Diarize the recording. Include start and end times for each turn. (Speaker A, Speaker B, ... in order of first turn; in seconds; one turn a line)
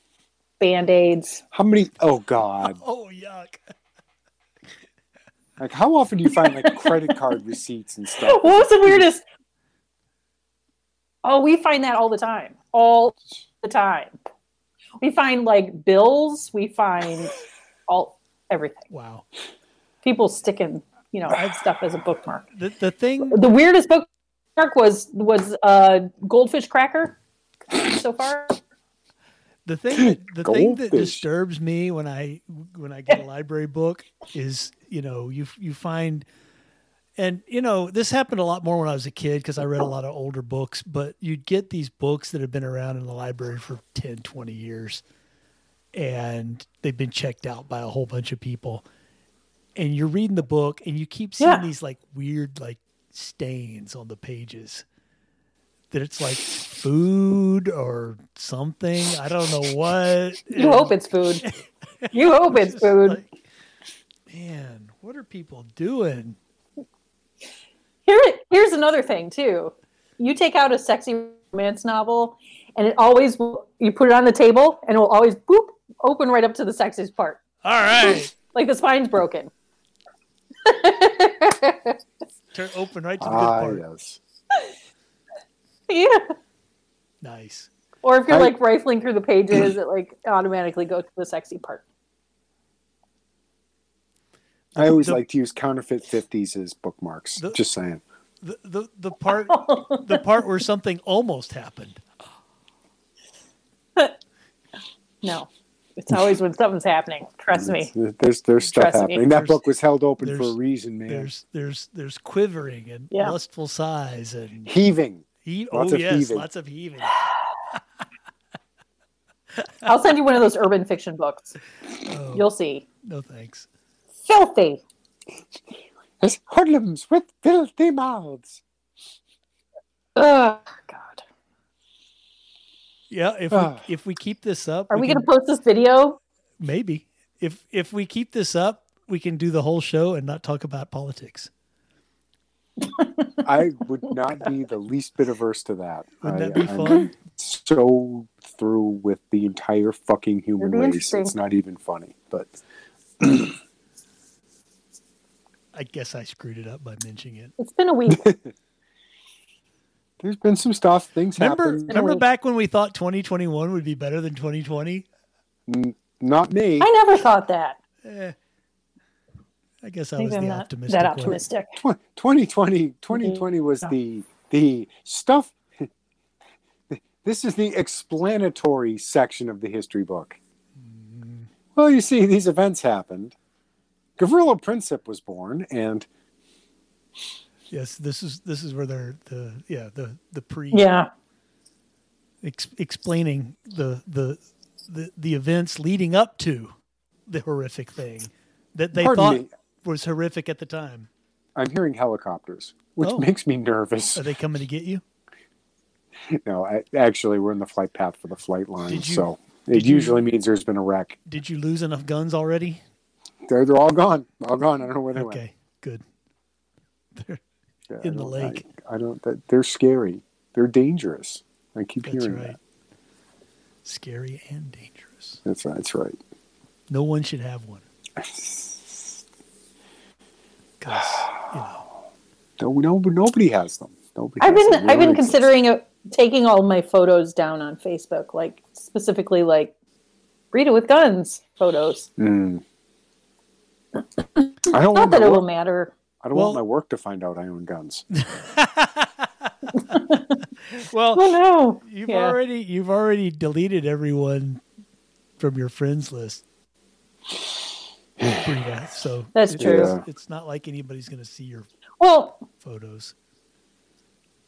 Speaker A: 0.6-1.4
Speaker B: 1.5-2.8
Speaker C: 2.6-3.6
Speaker B: 5.6-9.1
Speaker A: 6.4-7.1
Speaker A: 8.2-9.2
Speaker A: 11.2-14.2
Speaker A: 15.0-18.9
Speaker C: 18.9-19.2
Speaker A: 20.0-22.4
Speaker C: 22.5-23.4
Speaker A: 23.2-27.2
Speaker A: 27.7-28.6
Speaker C: 29.7-36.2
Speaker B: 30.0-31.2
Speaker C: 37.2-45.0
Speaker C: 45.9-48.8
Speaker C: 49.8-54.8
Speaker A: 51.4-51.7
Speaker C: 55.9-63.3
Speaker A: 60.5-61.4
Speaker A: 62.1-63.2
Speaker C: 64.3-66.4
Speaker A: 68.1-77.4
Speaker C: 77.6-78.3
Speaker A: 78.1-79.5
Speaker A: 80.7-82.0
Speaker C: 82.5-83.8
Speaker B: 83.2-84.2
Speaker A: 85.9-86.3
Speaker C: 87.2-87.7
Speaker A: 88.0-91.8
Speaker B: 88.3-88.6
Speaker C: 94.8-95.2
Speaker B: 94.8-98.0
Speaker C: 98.4-102.0
Speaker A: 99.5-100.2
Speaker A: 105.2-107.9
Speaker B: 107.5-111.3
Speaker A: 108.7-109.3
Speaker C: 109.3-109.6
Speaker C: 110.2-110.6
Speaker C: 111.1-114.7
Speaker B: 114.7-116.5
Speaker C: 115.5-117.3
Speaker A: 119.9-121.6
Speaker C: 122.0-122.4
Speaker A: 122.3-122.8
Speaker C: 123.0-123.7
Speaker A: 124.2-124.8
Speaker B: 126.2-128.6
Speaker A: 130.2-131.2
Speaker C: 133.1-135.3
Speaker B: 133.5-133.8
Speaker A: 134.9-136.2
Speaker C: 136.6-141.5
Speaker A: 143.0-143.4
Speaker B: 143.4-152.5
Speaker C: 146.2-147.1
Speaker A: 150.6-151.3
Speaker B: 153.2-153.6
Speaker C: 155.7-157.5
Speaker A: 157.6-158.3
Speaker B: 158.1-158.5
Speaker B: 160.2-161.9
Speaker C: 161.4-165.1
Speaker A: 161.9-162.2
Speaker B: 165.7-166.9
Speaker A: 166.8-167.8
Speaker C: 168.0-168.3
Speaker C: 169.8-171.4
Speaker A: 170.2-171.8
Speaker B: 171.3-175.9
Speaker B: 176.9-180.4
Speaker C: 180.8-181.5
Speaker B: 181.8-183.3
Speaker B: 184.2-186.1
Speaker C: 187.7-190.9
Speaker A: 190.7-191.1
Speaker C: 192.4-196.7
Speaker C: 197.3-201.1
Speaker B: 198.9-199.5
Speaker B: 201.6-204.2
Speaker C: 203.0-203.3
Speaker C: 204.2-205.0
Speaker B: 206.3-211.2
Speaker C: 208.9-210.2
Speaker C: 211.3-212.8
Speaker B: 213.5-215.4
Speaker C: 215.1-216.0
Speaker C: 217.2-217.4
Speaker B: 217.9-222.6
Speaker C: 218.0-218.7
Speaker C: 222.0-222.6
Speaker C: 223.8-225.4
Speaker B: 225.4-226.2
Speaker C: 226.9-227.8
Speaker B: 228.2-229.2
Speaker C: 230.8-231.8
Speaker B: 232.6-235.5
Speaker A: 234.4-239.7
Speaker A: 240.5-242.1
Speaker B: 242.2-242.6
Speaker A: 244.4-245.9
Speaker B: 244.7-245.4
Speaker B: 246.2-248.1
Speaker C: 246.3-246.6
Speaker C: 248.2-249.1
Speaker A: 249.8-250.3
Speaker C: 250.7-254.6
Speaker A: 251.2-252.4
Speaker C: 255.4-256.4
Speaker C: 258.3-261.7
Speaker A: 259.4-259.9
Speaker B: 259.6-260.0
Speaker A: 262.0-262.4
Speaker C: 262.6-263.1